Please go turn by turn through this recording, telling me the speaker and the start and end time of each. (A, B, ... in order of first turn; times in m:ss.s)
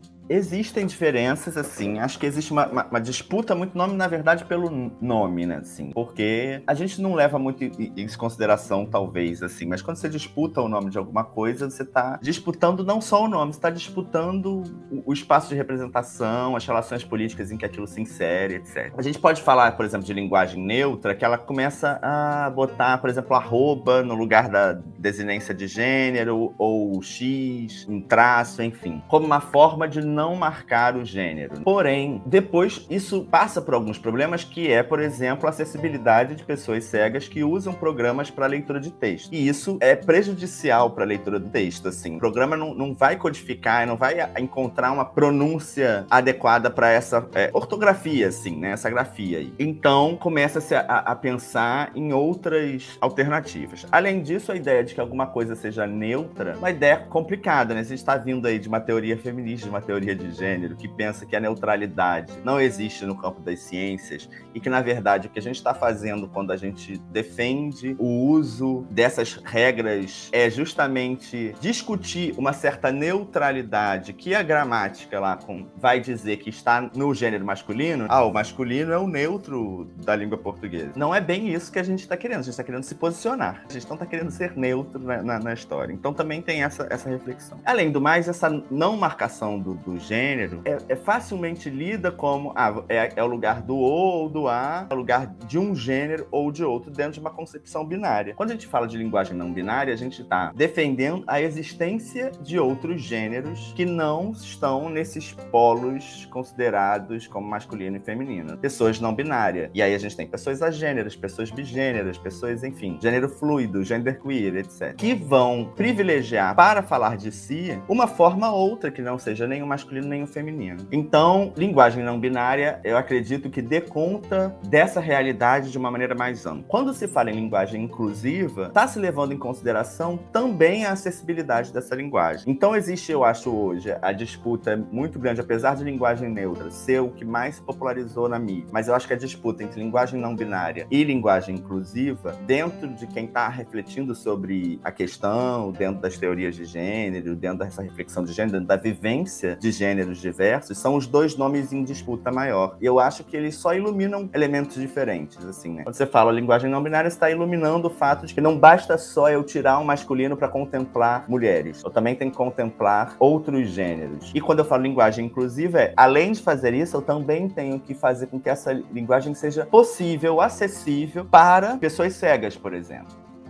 0:00.3-2:53.1 A